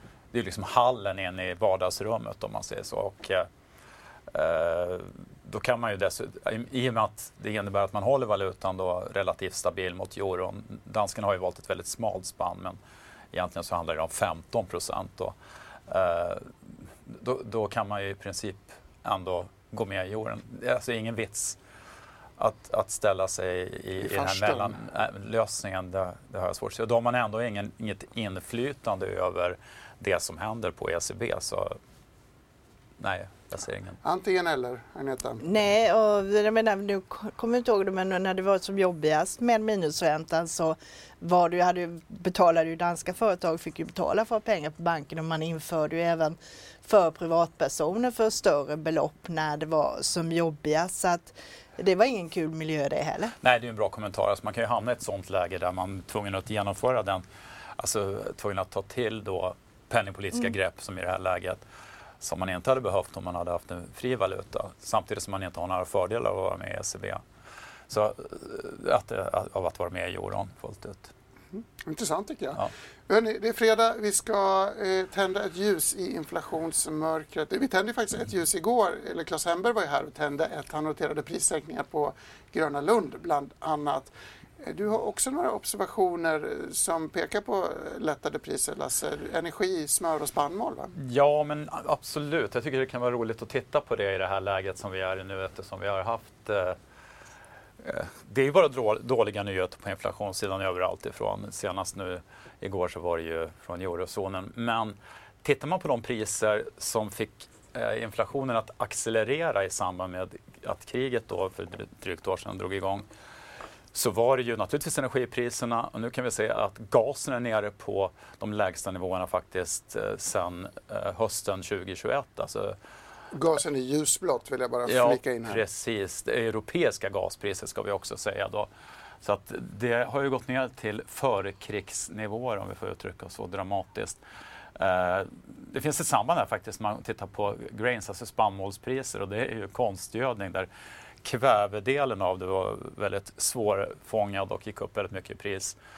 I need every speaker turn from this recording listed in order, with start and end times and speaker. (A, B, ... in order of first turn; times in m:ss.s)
0:00.3-0:03.5 A
0:04.3-0:12.8 A
0:13.3-0:15.4 A
0:15.9-0:21.6 A
0:22.4-0:31.8 A
0:24.0-0:24.8 B
0:33.0-0:34.0 A
0:34.0-0:35.4 B
0:35.4-0:53.3 C
0:53.4-0:57.2 A
0:57.8-1:01.6 A
1:02.2-1:07.2 A
1:07.9-1:11.1 A
1:11.5-1:30.9 B
1:31.0-1:36.8 A
1:37.8-1:53.0 A
1:53.9-2:02.8 A
2:03.3-2:05.6 B
2:04.8-2:08.7 A
2:09.2-2:14.2 A
2:14.8-2:20.7 A
2:21.2-2:25.8 A